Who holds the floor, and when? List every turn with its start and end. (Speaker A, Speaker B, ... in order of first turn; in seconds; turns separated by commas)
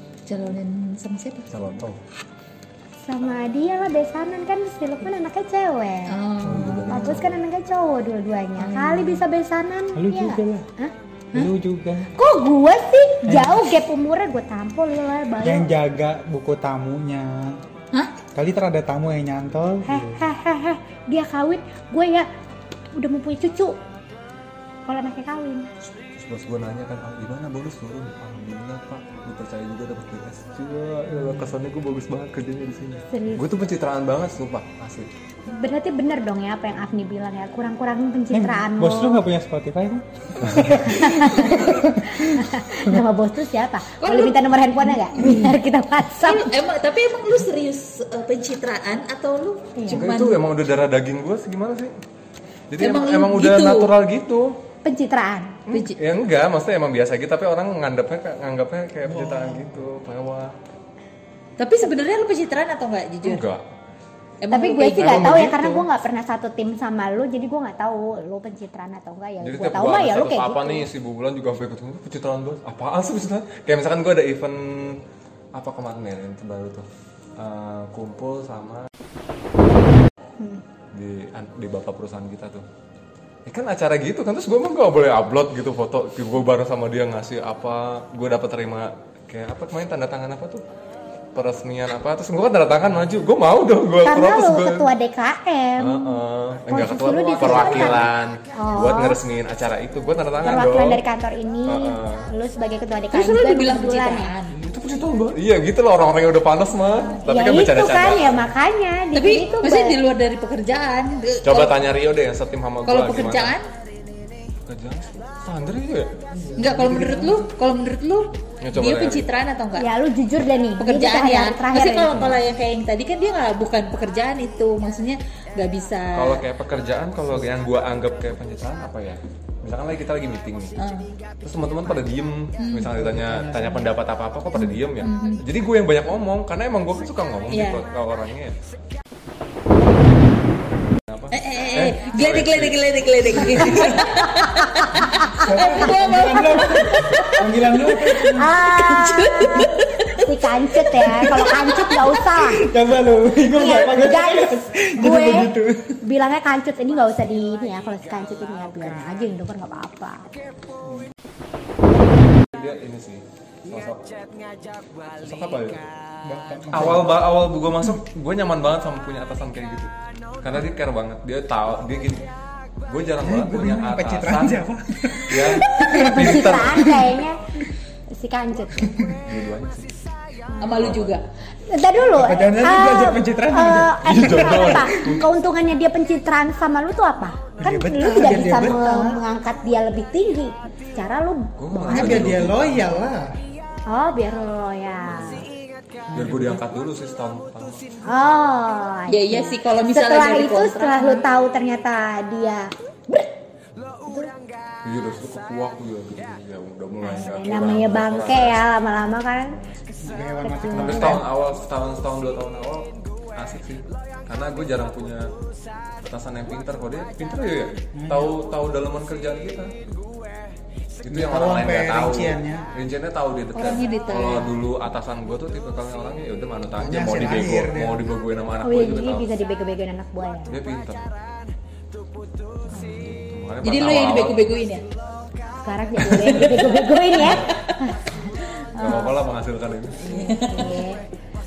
Speaker A: 0.2-1.5, Speaker B: 1.5-2.0, Speaker C: 3.0-6.2, Speaker A: 6.1-7.1, Speaker B: 6.4-7.3, Speaker C: 6.9-10.9, Speaker A: 8.6-9.2, Speaker D: 9.9-10.7, Speaker D: 11.3-12.1, Speaker C: 12.1-15.7, Speaker D: 13.3-13.6, Speaker D: 15.4-17.6, Speaker D: 18.3-20.2, Speaker C: 19.9-22.3, Speaker C: 22.9-23.8, Speaker C: 24.9-25.7, Speaker B: 26.1-35.1, Speaker D: 31.1-31.5, Speaker C: 33.1-33.4, Speaker C: 35.5-39.2, Speaker D: 38.3-43.0, Speaker C: 40.9-46.5, Speaker A: 44.0-44.4, Speaker A: 44.9-45.4, Speaker A: 46.2-50.4, Speaker C: 49.8-50.0, Speaker B: 49.9-51.9, Speaker B: 52.7-54.5, Speaker A: 52.8-53.9, Speaker C: 54.8-55.6, Speaker B: 55.7-60.5, Speaker A: 55.7-56.0, Speaker D: 59.0-59.7, Speaker A: 61.6-63.4, Speaker B: 63.2-63.6, Speaker A: 64.4-65.5, Speaker C: 64.5-70.8, Speaker B: 65.0-65.8, Speaker B: 69.4-75.0, Speaker B: 75.5-76.8, Speaker B: 77.4-78.9, Speaker B: 80.9-82.6, Speaker B: 83.5-90.6, Speaker B: 91.3-94.9, Speaker C: 94.0-99.2, Speaker B: 95.8-101.0, Speaker A: 97.2-98.1, Speaker C: 100.4-104.3, Speaker B: 101.7-102.3, Speaker A: 103.1-104.5, Speaker B: 104.5-108.5, Speaker C: 107.3-110.0, Speaker A: 109.1-111.8, Speaker B: 111.4-113.5, Speaker A: 112.9-113.7, Speaker B: 114.7-116.1, Speaker D: 116.3-117.5, Speaker A: 116.6-119.9, Speaker B: 118.6-119.3, Speaker C: 119.8-122.3, Speaker A: 120.8-126.4, Speaker B: 122.1-122.4, Speaker B: 126.1-130.8, Speaker A: 130.8-131.1, Speaker B: 131.4-138.5, Speaker A: 132.6-132.9, Speaker D: 132.9-133.9, Speaker A: 135.0-135.4, Speaker A: 137.5-137.8, Speaker B: 141.1-144.2, Speaker A: 141.3-150.3, Speaker D: 145.4-148.5, Speaker C: 148.3-152.7, Speaker A: 150.9-152.0, Speaker D: 152.4-156.0, Speaker C: 153.5-160.2, Speaker B: 162.5-164.1, Speaker B: 165.2-165.9, Speaker D: 166.2-167.2, Speaker B: 166.7-172.3, Speaker B: 172.8-174.6, Speaker D: 173.2-177.2, Speaker B: 175.2-176.9, Speaker C: 175.8-177.4, Speaker C: 178.1-178.9, Speaker D: 178.9-179.2, Speaker B: 179.2-179.9, Speaker A: 180.6-181.2, Speaker B: 180.7-181.2, Speaker C: 181.7-192.3, Speaker D: 182.1-185.1, Speaker B: 184.0-185.3, Speaker D: 187.6-189.2, Speaker B: 191.6-192.9, Speaker D: 191.8-193.3, Speaker C: 193.9-195.4, Speaker B: 195.1-195.4, Speaker D: 196.1-196.6, Speaker B: 196.1-197.8, Speaker C: 198.1-203.3, Speaker A: 199.1-201.2, Speaker B: 204.8-208.6, Speaker C: 207.0-209.6, Speaker D: 210.0-211.3, Speaker C: 210.4-211.2, Speaker B: 210.7-215.3, Speaker B: 216.0-219.8, Speaker D: 217.9-218.3, Speaker B: 221.0-229.3, Speaker D: 221.1-222.7, Speaker A: 223.5-224.5, Speaker D: 226.8-228.1, Speaker C: 228.6-230.6, Speaker B: 230.5-231.1, Speaker C: 232.8-233.0, Speaker B: 232.9-234.5, Speaker A: 233.6-234.8, Speaker C: 235.6-238.0, Speaker A: 236.0-237.8, Speaker B: 237.2-237.5, Speaker B: 238.8-240.2, Speaker A: 240.0-240.9, Speaker C: 240.1-241.0